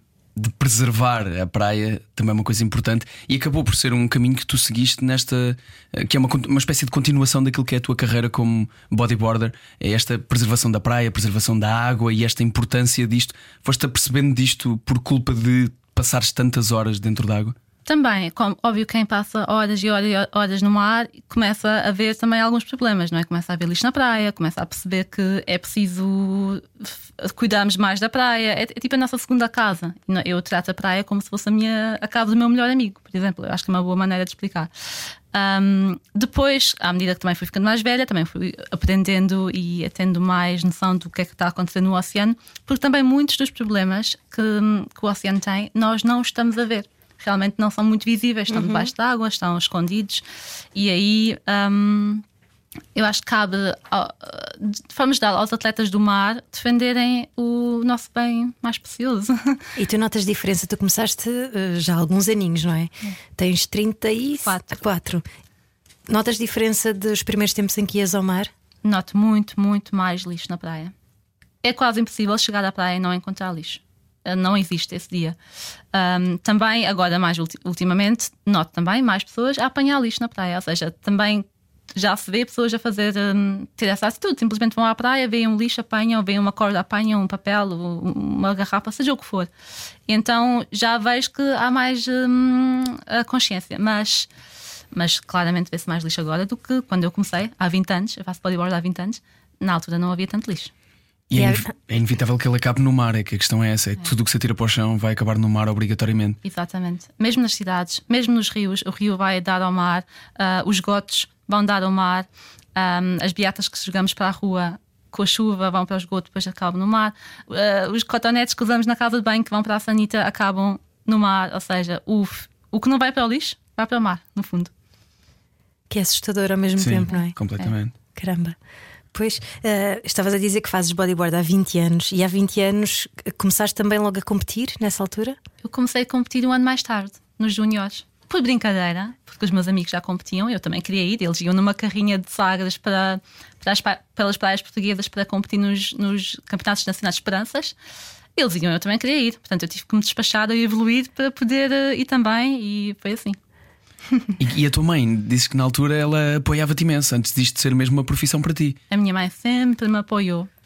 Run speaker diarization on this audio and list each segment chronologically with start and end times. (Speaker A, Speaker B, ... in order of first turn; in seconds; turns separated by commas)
Speaker A: 0.3-17.5, Speaker B: 17.9-34.7, Speaker B: 35.3-50.2, Speaker C: 48.5-48.9, Speaker B: 50.7-52.2, Speaker B: 52.9-59.6, Speaker C: 59.8-65.2, Speaker B: 64.4-64.8, Speaker C: 66.1-68.5, Speaker B: 68.8-70.9, Speaker B: 71.6-75.4, Speaker B: 75.9-89.5, Speaker B: 90.1-94.3, Speaker B: 94.9-100.7, Speaker A: 101.3-106.4, Speaker C: 101.3-101.6, Speaker B: 106.4-124.7, Speaker C: 125.9-127.3, Speaker A: 126.8-127.9, Speaker C: 128.1-128.6, Speaker C: 129.1-135.4, Speaker B: 135.6-147.7, Speaker B: 148.3-153.4, Speaker A: 154.4-158.8, Speaker B: 158.9-160.5